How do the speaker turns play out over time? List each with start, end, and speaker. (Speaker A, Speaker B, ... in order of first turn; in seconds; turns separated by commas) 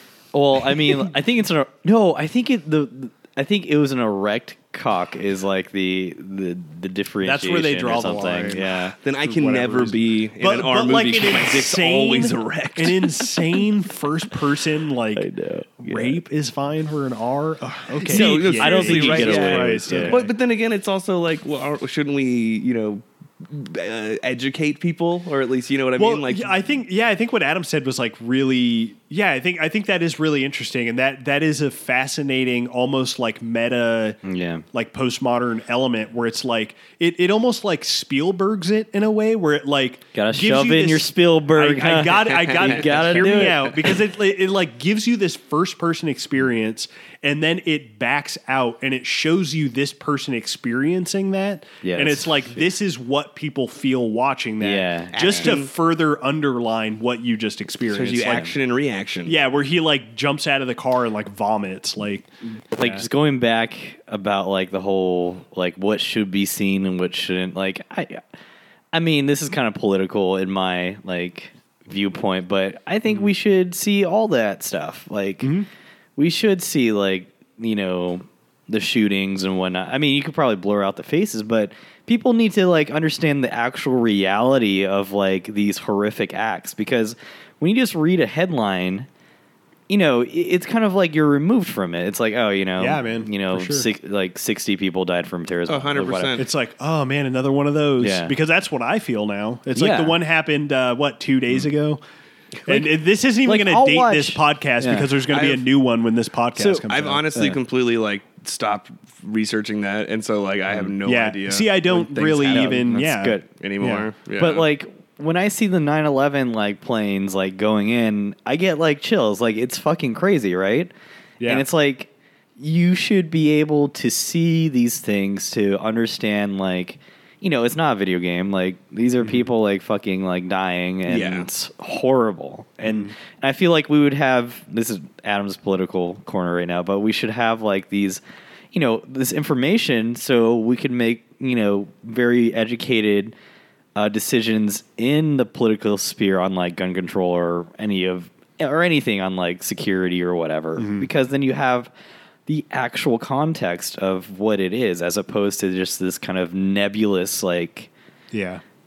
Speaker A: 0.3-9.0, Speaker B: 7.2-15.3, Speaker C: 9.0-13.4, Speaker A: 15.2-16.2, Speaker B: 15.8-20.3, Speaker C: 18.0-26.6, Speaker A: 18.1-20.2, Speaker B: 26.0-34.2, Speaker A: 34.2-34.6, Speaker B: 34.7-58.5, Speaker A: 40.1-43.8, Speaker C: 42.3-43.2, Speaker A: 51.8-52.6, Speaker A: 54.6-55.5, Speaker C: 55.1-55.7, Speaker C: 57.9-59.4, Speaker B: 59.3-63.0, Speaker A: 62.7-68.2, Speaker A: 68.9-75.5, Speaker B: 75.4-75.7, Speaker A: 76.2-89.1, Speaker A: 89.9-96.4, Speaker B: 92.8-93.9, Speaker C: 95.7-96.5, Speaker B: 96.4-102.0, Speaker A: 98.0-98.3, Speaker A: 99.8-100.2, Speaker B: 102.7-107.3, Speaker A: 103.5-105.1, Speaker C: 105.3-105.7, Speaker A: 106.6-107.6, Speaker C: 106.8-112.9, Speaker B: 111.0-114.1, Speaker A: 112.5-113.5, Speaker C: 113.5-114.7, Speaker A: 114.4-120.9, Speaker B: 121.4-121.7, Speaker A: 121.5-138.2, Speaker B: 129.2-129.5, Speaker C: 131.1-131.5, Speaker B: 132.8-133.1, Speaker A: 138.7-143.3, Speaker A: 143.9-151.9, Speaker B: 150.8-151.1, Speaker A: 152.5-157.9, Speaker B: 158.3-158.6